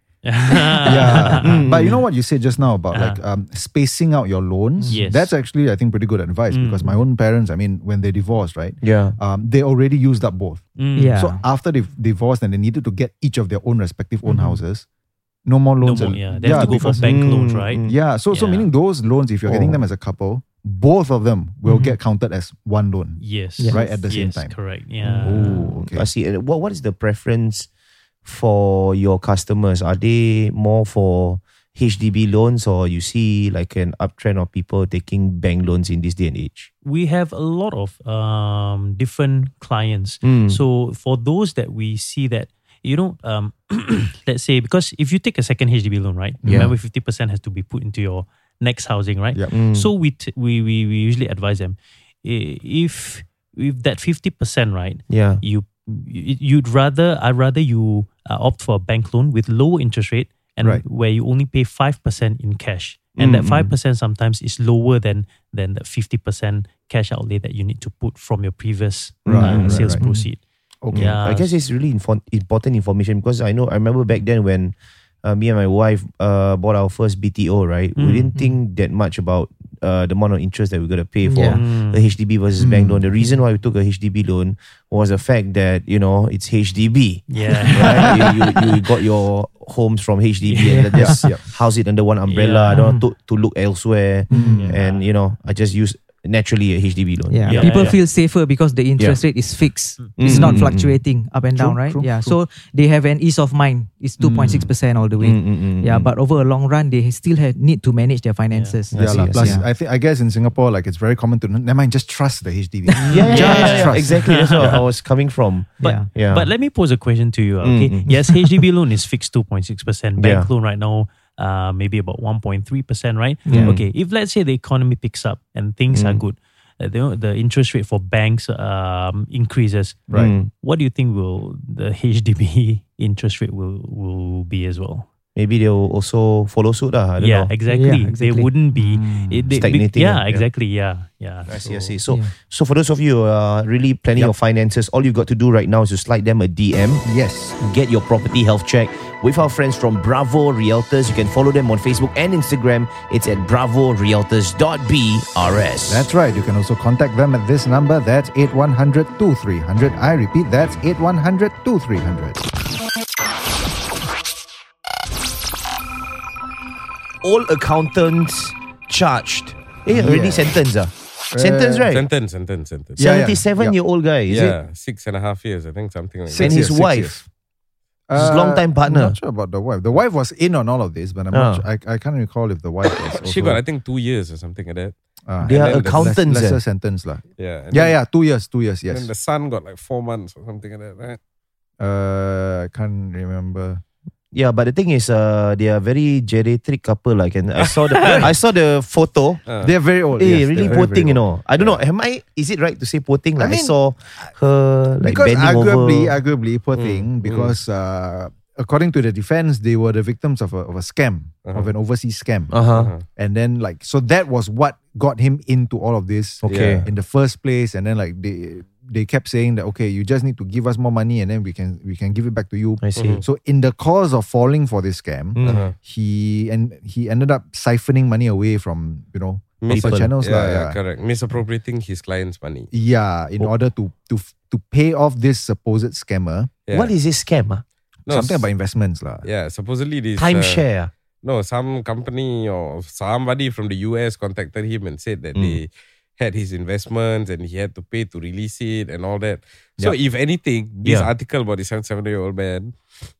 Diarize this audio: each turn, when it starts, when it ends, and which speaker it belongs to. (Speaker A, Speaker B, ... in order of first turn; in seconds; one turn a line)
Speaker A: 0.2-1.8
Speaker B: 0.8-14.9
Speaker C: 1.4-2.0
Speaker A: 2.9-3.2
Speaker D: 4.8-5.1
Speaker A: 4.9-5.3
Speaker A: 6.5-7.0
Speaker C: 8.8-9.2
Speaker A: 10.8-11.2
Speaker D: 10.9-11.4
Speaker D: 14.2-14.6
Speaker B: 15.5-24.6
Speaker A: 15.8-18.7
Speaker D: 16.3-17.1
Speaker C: 17.0-18.0
Speaker C: 19.5-19.8
Speaker D: 21.6-21.9
Speaker A: 23.2-25.8
Speaker D: 23.6-24.0
Speaker D: 25.0-25.3
Speaker B: 25.2-26.1
Speaker C: 25.4-27.7
Speaker C: 28.2-36.7
Speaker A: 36.8-71.5
Speaker C: 40.2-40.6
Speaker B: 46.4-46.7
Speaker C: 46.4-46.7
Speaker C: 49.5-49.9
Speaker C: 55.1-55.4
Speaker C: 63.2-63.7
Speaker C: 69.2-70.0
Speaker B: 69.3-70.1
Speaker D: 70.0-70.3
Speaker B: 70.8-71.1
Speaker C: 70.9-97.9
Speaker A: 78.0-78.3
Speaker D: 81.2-81.7
Speaker A: 81.4-82.1
Speaker B: 82.6-83.0
Speaker A: 87.3-88.4
Speaker D: 87.6-88.3
Speaker A: 90.5-91.1
Speaker D: 90.6-91.3
Speaker B: 90.9-91.4
Speaker A: 92.3-92.9
Speaker D: 92.7-93.0
Speaker D: 94.3-94.7
Speaker B: 94.3-94.8
Speaker A: 94.4-95.0
Speaker D: 97.3-109.7
Speaker A: 97.5-98.0
Speaker A: 100.0-100.4
Speaker C: 100.2-101.0
Speaker B: 101.6-102.4
Speaker B: 104.2-104.7
Speaker C: 105.2-106.1
Speaker A: 108.5-108.8
Speaker C: 108.9-109.6
Speaker B: 109.0-114.8
Speaker D: 112.9-113.9
Speaker C: 113.1-116.5
Speaker A: 113.1-114.9
Speaker A: 115.8-135.1
Speaker D: 115.8-116.1
Speaker C: 117.6-118.3
Speaker C: 120.2-120.5
Speaker D: 123.5-123.7
Speaker C: 123.5-123.8
Speaker C: 125.9-126.2
Speaker C: 130.1-130.5
Speaker C: 135.4-137.5
Speaker A: 137.2-142.0
Speaker D: 137.7-138.6
Speaker B: 138.7-139.7
Speaker C: 139.5-140.5
Speaker C: 141.5-147.0
Speaker D: 142.1-142.3
Speaker B: 147.0-147.6
Speaker C: 147.6-156.1
Speaker B: 155.9-162.4
Speaker C: 167.2-172.1
Speaker B: 169.9-170.6
Speaker B: 171.3-171.9
Speaker E: 171.9-173.0
Speaker B: 173.0-173.8
Speaker C: 173.0-174.6
Speaker E: 174.3-176.8
Speaker B: 176.3-177.3
Speaker C: 176.3-177.2
Speaker B: 178.1-183.6
Speaker C: 178.1-179.2
Speaker C: 181.3-181.7
Speaker E: 182.9-186.2
Speaker B: 185.3-189.1
Speaker C: 185.4-186.6
Speaker E: 187.4-188.0
Speaker E: 188.9-191.2
Speaker B: 191.8-193.8
Speaker C: 194.3-199.5
Speaker E: 197.6-198.3
Speaker E: 199.5-199.7
Speaker B: 199.6-201.2
Speaker C: 200.2-206.2
Speaker E: 200.7-201.0
Speaker B: 203.4-203.7
Speaker B: 205.0-212.6
Speaker E: 206.8-207.6
Speaker E: 211.5-211.7
Speaker C: 212.5-212.9
Speaker E: 212.8-213.1
Speaker B: 213.2-230.8
Speaker C: 216.4-216.8
Speaker E: 216.4-216.9
Speaker C: 222.8-223.2
Speaker E: 223.0-223.2
Speaker C: 225.3-225.7
Speaker E: 225.4-225.8
Speaker E: 229.6-232.7
Speaker C: 229.7-230.1
Speaker B: 232.7-236.5
Speaker E: 236.7-236.9
Speaker C: 236.7-237.6
Speaker E: 238.1-238.5
Speaker B: 238.1-239.3
Speaker E: 239.2-240.6
Speaker C: 240.2-240.9
Speaker E: 241.2-252.8
Speaker C: 245.3-245.6
Speaker C: 250.8-251.1